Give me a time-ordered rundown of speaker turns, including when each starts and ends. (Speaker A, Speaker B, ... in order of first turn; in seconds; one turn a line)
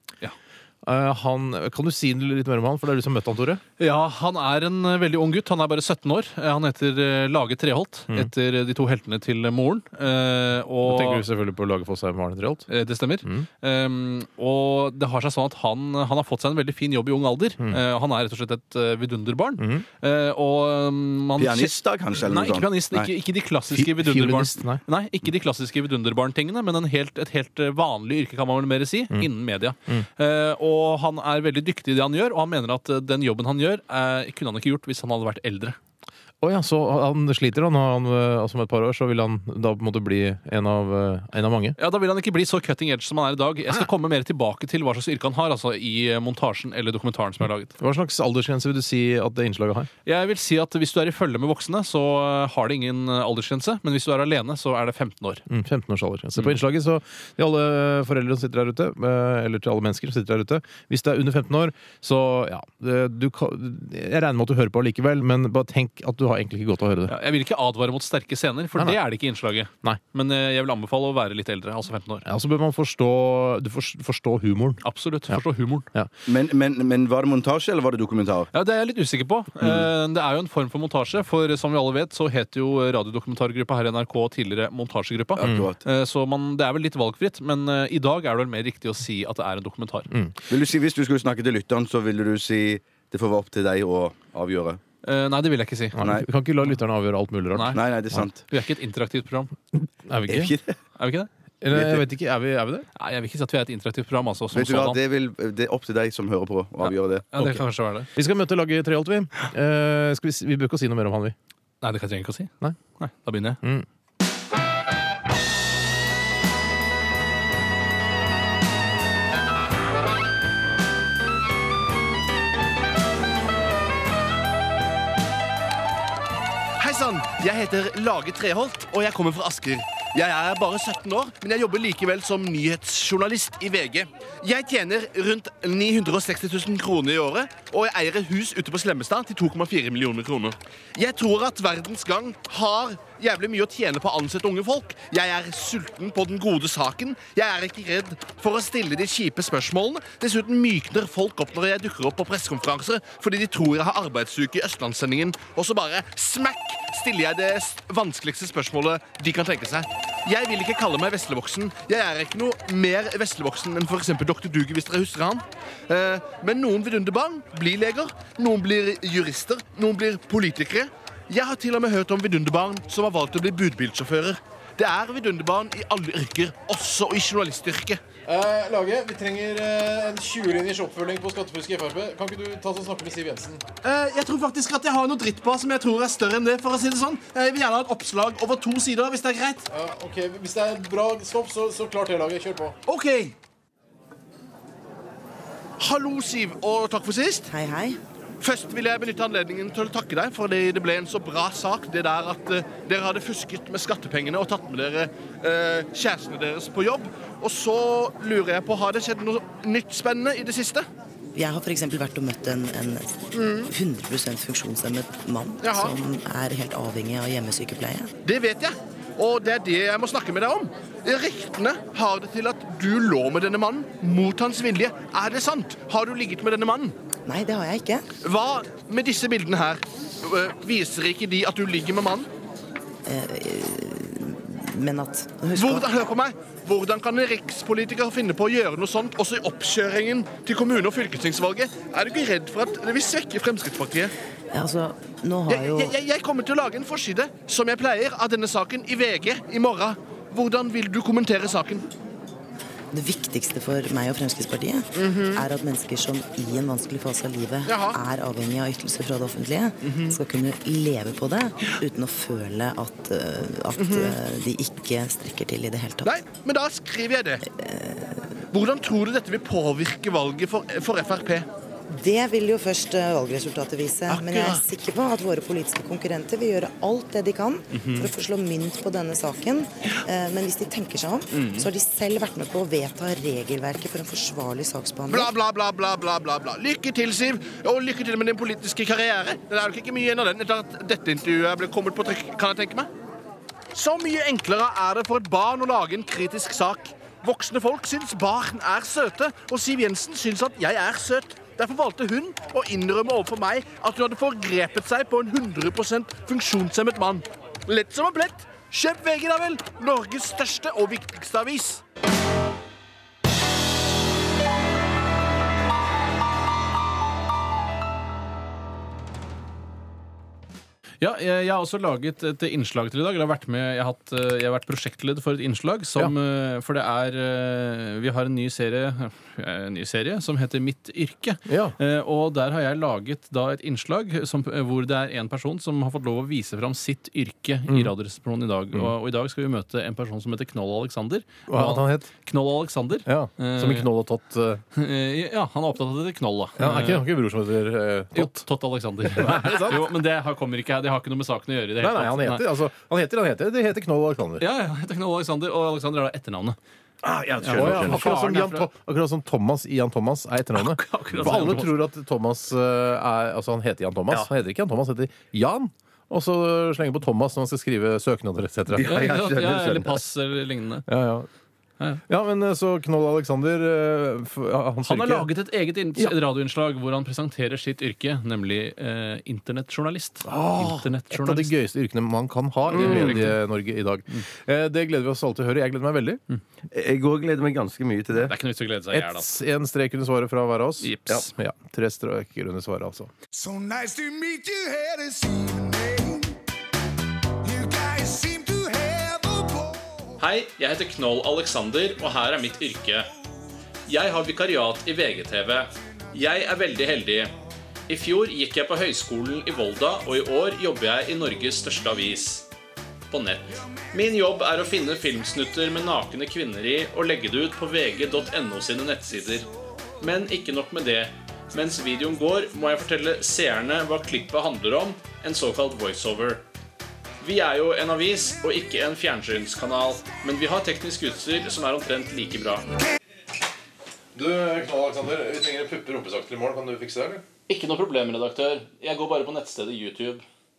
Speaker A: 0.8-3.6
Speaker B: 3.8-11.2
Speaker A: 10.8-12.7
Speaker B: 12.7-35.8
Speaker A: 19.6-19.8
Speaker C: 21.4-23.1
Speaker A: 23.7-24.8
Speaker A: 36.4-41.8
Speaker B: 41.8-47.8
Speaker A: 47.8-49.9
Speaker B: 50.0-55.5
Speaker A: 55.5-67.1
Speaker B: 67.1-72.2
Speaker A: 72.2-75.4
Speaker B: 74.8-75.9
Speaker C: 76.2-78.5
Speaker B: 78.5-90.1
Speaker C: 85.3-85.8
Speaker C: 90.5-94.8
Speaker B: 95.0-96.0
Speaker A: 96.0-97.8
Speaker C: 96.0-96.3
Speaker B: 97.5-99.5
Speaker C: 97.7-98.4
Speaker A: 100.0-100.5
Speaker C: 100.3-100.7
Speaker B: 101.0-101.3
Speaker A: 101.6-102.9
Speaker C: 101.7-102.0
Speaker B: 103.0-105.0
Speaker C: 104.5-107.2
Speaker B: 106.8-108.1
Speaker A: 107.4-107.6
Speaker A: 108.1-111.3
Speaker B: 111.8-113.6
Speaker D: 126.8-178.0
Speaker A: 178.3-183.6
Speaker E: 179.4-179.8
Speaker E: 182.4-183.0
Speaker D: 183.8-189.6
Speaker A: 189.8-192.7
Speaker E: 189.8-190.8
Speaker E: 191.6-192.2
Speaker D: 192.9-193.3
Speaker D: 195.8-197.4
Speaker F: 197.5-198.0
Speaker D: 198.4-210.9
Speaker F: 211.3-218.1
Speaker D: 213.4-213.7
Speaker D: 218.2-226.9
Speaker F: 227.2-228.1
Speaker D: 228.2-232.3
Speaker F: 233.1-235.8
Speaker D: 235.6-244.1
Speaker F: 244.5-245.9
Speaker D: 245.5-251.9
Speaker F: 252.9-266.1
Speaker D: 255.0-255.4
Speaker D: 263.8-264.1
Speaker D: 266.1-267.4
Speaker F: 267.4-268.3
Speaker D: 268.5-271.5
Speaker F: 271.9-285.3
Speaker D: 274.1-274.6
Speaker D: 285.2-292.9
Speaker D: 293.7-311.8
Speaker B: 321.0-343.9
Speaker A: 331.5-331.8
Speaker A: 341.5-342.1
Speaker A: 343.1-344.6
Speaker B: 344.7-347.1
Speaker A: 346.6-348.4
Speaker B: 348.1-352.4
Speaker A: 349.1-349.8
Speaker A: 351.8-354.4
Speaker B: 354.4-356.6
Speaker C: 357.0-358.1
Speaker B: 357.4-358.7
Speaker A: 357.4-368.9
Speaker B: 360.5-361.7
Speaker C: 368.7-369.9
Speaker B: 368.8-370.9
Speaker A: 370.9-371.3
Speaker A: 372.1-375.3
Speaker B: 374.8-381.5
Speaker A: 380.3-386.2
Speaker B: 382.7-383.4
Speaker C: 386.7-388.3
Speaker B: 388.1-389.3
Speaker A: 388.9-393.1
Speaker B: 390.8-391.3
Speaker E: 393.3-396.3
Speaker E: 397.4-399.7
Speaker B: 400.2-403.1
Speaker B: 403.9-407.3
Speaker B: 407.9-412.5
Speaker B: 413.1-419.5
Speaker B: 420.0-426.4
Speaker B: 427.2-432.6
Speaker A: 434.1-437.2
Speaker B: 437.5-440.2